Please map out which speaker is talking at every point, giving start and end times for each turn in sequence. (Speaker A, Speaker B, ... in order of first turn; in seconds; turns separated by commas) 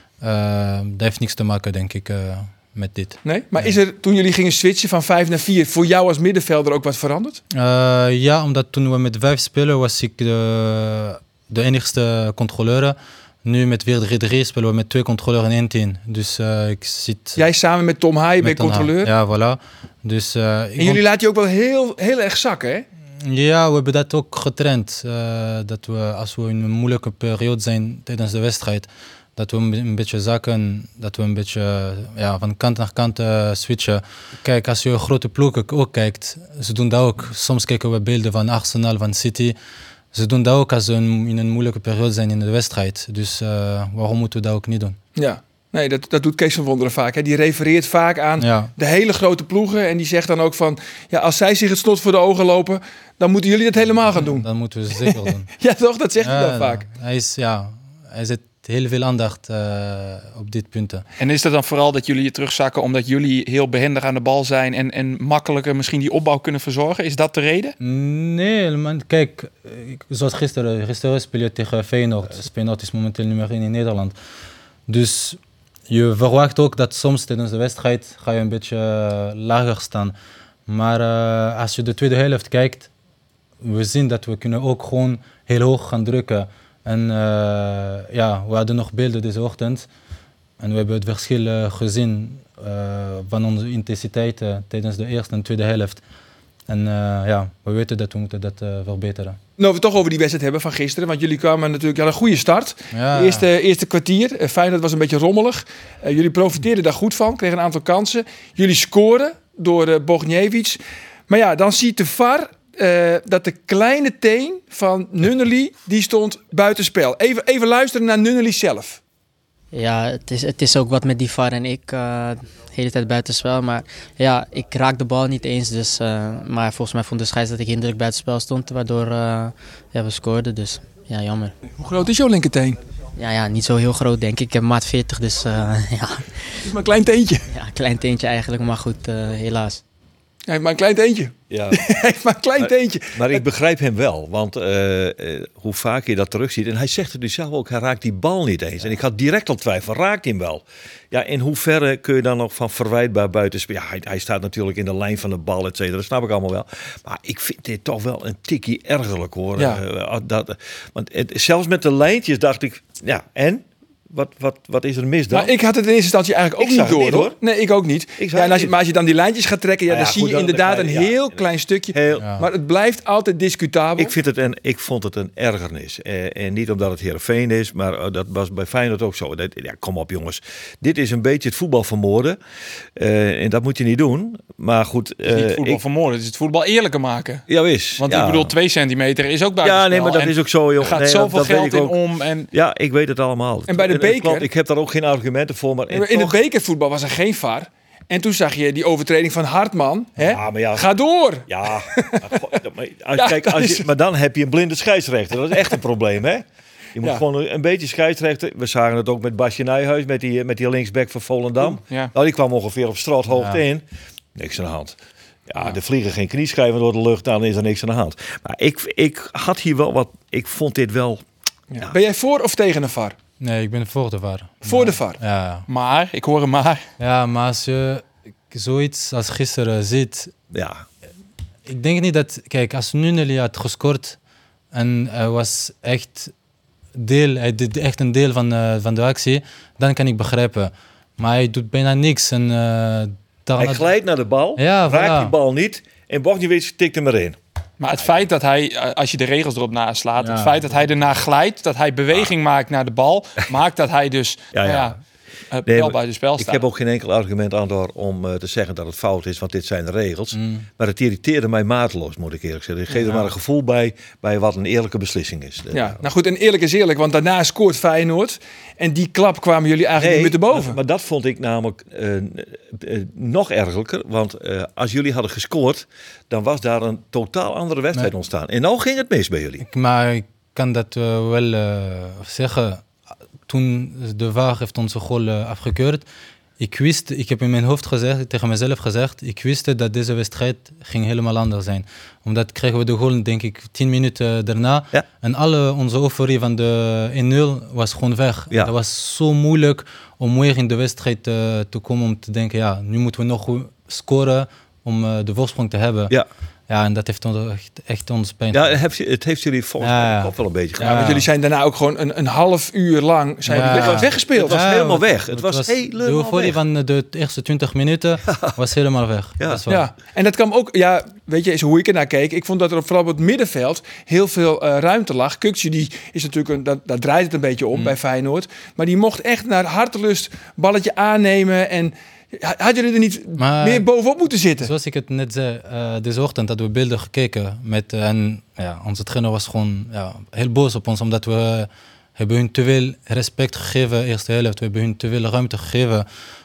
Speaker A: 0.2-3.7, Speaker B: 3.2-7.4, Speaker A: 7.5-17.4, Speaker B: 17.4-19.1, Speaker A: 18.4-21.0, Speaker B: 20.8-22.9, Speaker A: 23.2-39.5, Speaker A: 40.1-45.0, Speaker B: 45.1-56.8, Speaker A: 48.4-48.7, Speaker A: 54.3-55.5, Speaker A: 56.2-61.0, Speaker C: 61.2-67.8, Speaker A: 67.8-74.1, Speaker A: 74.9-75.4, Speaker A: 75.9-80.1, Speaker A: 80.7-82.9, Speaker A: 83.6-89.8, Speaker A: 90.6-96.0, Speaker A: 96.7-99.4, Speaker B: 99.6-119.0, Speaker A: 102.9-103.5, Speaker D: 119.7-131.5, Speaker B: 131.8-132.8, Speaker D: 133.2-136.5, Speaker B: 136.6-137.5, Speaker D: 137.5-139.8, Speaker B: 140.5-143.4, Speaker E: 141.5-141.8, Speaker E: 142.6-165.5, Speaker B: 165.3-174.2, Speaker E: 166.6-167.3, Speaker E: 168.2-168.7, Speaker E: 169.9-171.4, Speaker E: 171.9-172.3, Speaker A: 172.2-172.4, Speaker E: 174.0-182.4, Speaker E: 183.0-185.8, Speaker C: 185.3-187.4, Speaker E: 187.5-188.5, Speaker C: 188.0-192.5, Speaker E: 189.6-192.0, Speaker E: 192.5-196.4, Speaker B: 193.7-194.5, Speaker B: 195.9-202.5, Speaker E: 200.2-200.9, Speaker E: 201.5-206.4, Speaker B: 203.2-203.9, Speaker E: 206.9-213.8, Speaker A: 213.3-213.6, Speaker E: 214.3-214.9, Speaker E: 215.5-221.2, Speaker B: 221.7-223.2, Speaker A: 223.4-225.7, Speaker B: 224.6-225.2, Speaker C: 225.7-226.8, Speaker A: 227.0-230.3, Speaker E: 230.5-230.8, Speaker A: 231.7-234.2, Speaker A: 234.7-236.3, Speaker A: 236.9-243.8, Speaker E: 243.6-247.4, Speaker A: 244.6-245.3, Speaker C: 247.8-254.9, Speaker A: 250.2-250.6, Speaker E: 254.5-254.9, Speaker C: 255.5-256.6, Speaker E: 255.7-266.0, Speaker A: 260.3-260.7, Speaker B: 262.9-263.1, Speaker B: 265.7-270.8, Speaker E: 269.9-279.6, Speaker A: 279.6-282.8, Speaker A: 283.5-286.0, Speaker A: 286.6-306.1, Speaker A: 306.7-308.8, Speaker E: 308.5-311.1, Speaker A: 309.8-311.2, Speaker B: 310.8-314.6, Speaker A: 313.5-319.8, Speaker E: 313.6-316.6, Speaker E: 318.2-318.6, Speaker B: 319.7-334.7, Speaker A: 333.4-333.9, Speaker A: 334.6-346.1